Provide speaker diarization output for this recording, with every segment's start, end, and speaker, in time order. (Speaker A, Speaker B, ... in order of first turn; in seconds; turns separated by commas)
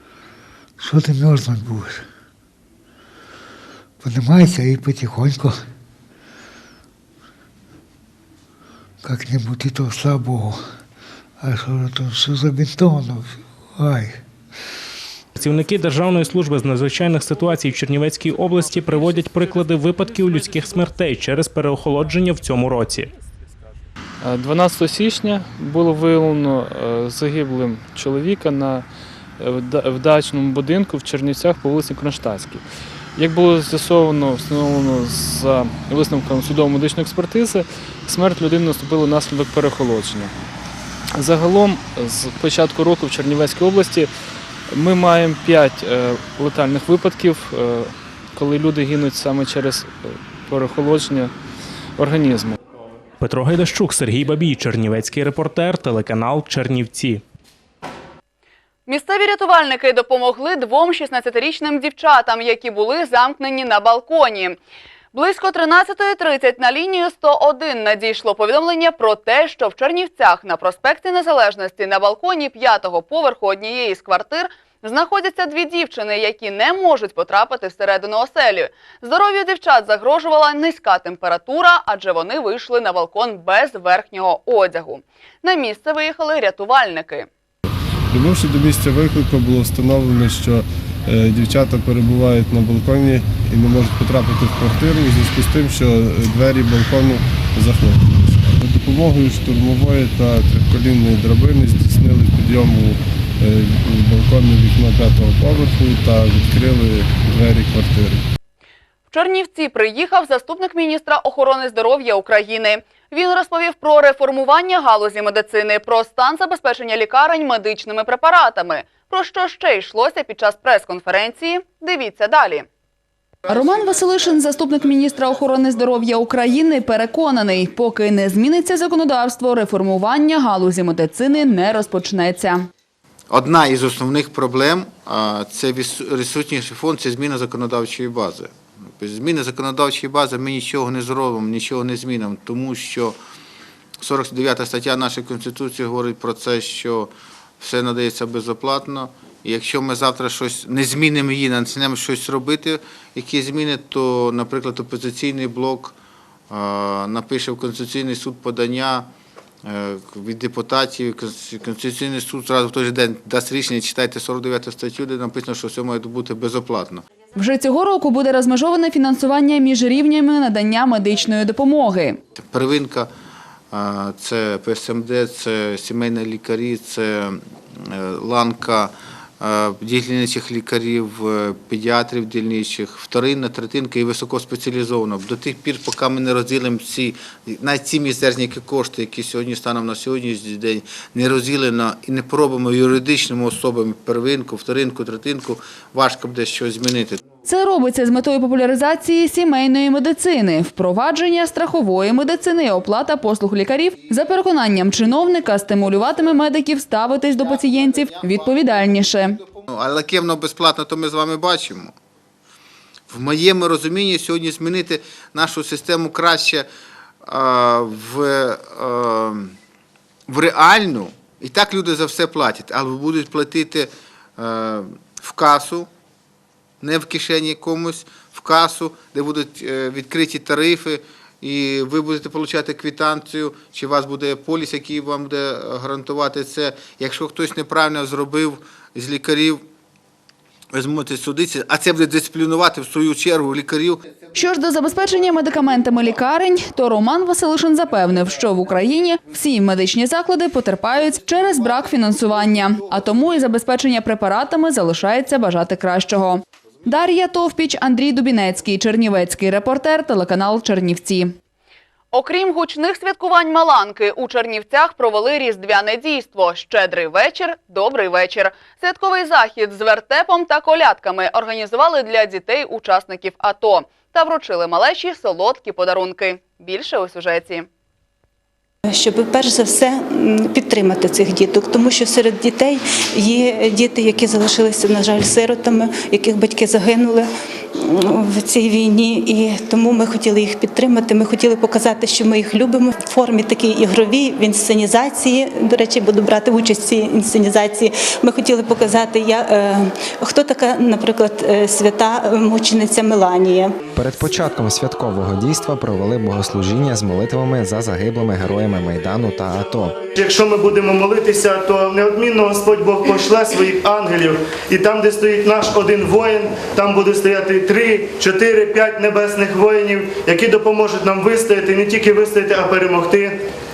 Speaker A: 0.8-2.0, Speaker A: 4.0-5.6, Speaker A: 9.0-10.6, Speaker A: 11.4-14.1, Speaker B: 15.3-23.1, Speaker C: 24.2-28.9, Speaker C: 29.4-40.3, Speaker C: 41.1-44.1, Speaker C: 44.7-51.3, Speaker C: 52.0-52.6, Speaker B: 53.2-57.2, Speaker D: 58.9-64.6, Speaker D: 65.1-87.3, Speaker E: 88.1-108.2, Speaker D: 109.1-122.7, Speaker D: 123.5-132.7, Speaker F: 133.3-143.2, Speaker F: 144.0-155.9, Speaker F: 156.5-159.1, Speaker F: 159.7-167.0, Speaker D: 167.3-172.2, Speaker F: 172.5-173.1, Speaker F: 173.7-197.2, Speaker D: 197.4-209.4, Speaker F: 207.6-211.9, Speaker F: 213.1-216.7, Speaker F: 217.3-219.5, Speaker F: 220.3-225.9, Speaker F: 226.8-239.6, Speaker F: 240.7-244.0, Speaker D: 244.3-261.3, Speaker D: 262.1-277.7, Speaker G: 278.8-303.7, Speaker H: 303.9-309.9, Speaker I: 310.1-323.3